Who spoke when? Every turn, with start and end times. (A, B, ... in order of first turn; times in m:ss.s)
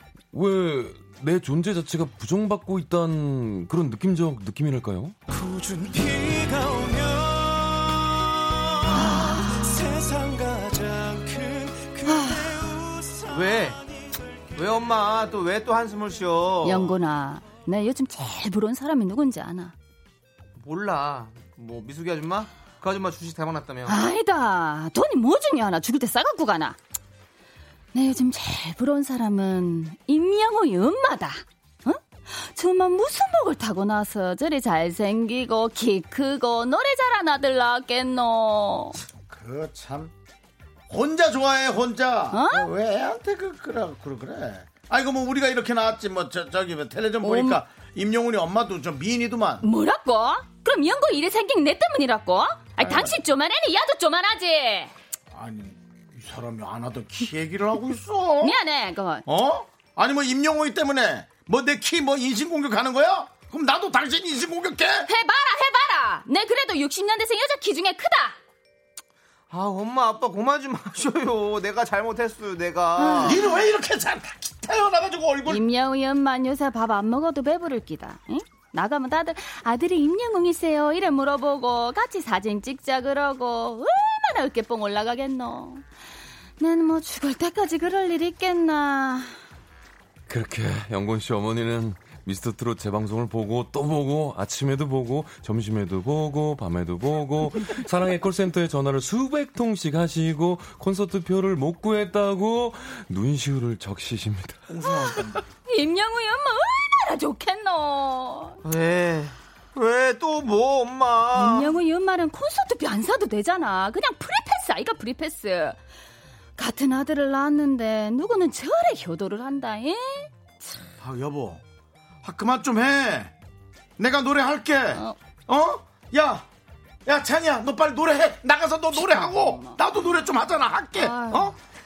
0:00.3-0:05.2 A
0:05.3-0:14.4 B
0:08.9-0:09.8 C
0:12.0-0:12.8 C
0:13.3-0:13.8 D
0:14.6-0:17.0 D
0:16.6-0:19.7 C
0:20.6-0:24.0 D
0:23.9-0:26.8 C
0:27.9-0:39.0 C
0:39.2-0:40.1 E
0:40.9-0:49.6 E
0:42.3-0:42.7 C
0:47.2-0:47.6 C
0:49.6-0:54.9 C
0:52.8-0:53.2 E
0:55.3-0:58.6 E
0:58.4-0:59.2 C
0:59.3-1:05.1 E
1:05.0-1:08.4 C
1:09.5-1:13.4 D
1:13.0-1:13.6 C
1:13.2-1:15.6 E
1:15.4-1:25.8 C
1:26.6-1:29.3 C
1:30.3-1:44.6 A
1:44.7-1:45.4 E
1:45.6-1:48.6 C
1:48.6-1:51.8 D
1:51.3-1:55.8 C
1:56.6-2:00.8 C
2:01.0-2:01.6 E
2:02.2-2:03.3 E
2:04.0-2:06.5 E
2:07.0-2:11.6 E
2:08.9-2:09.8 C
2:10.9-2:11.5 C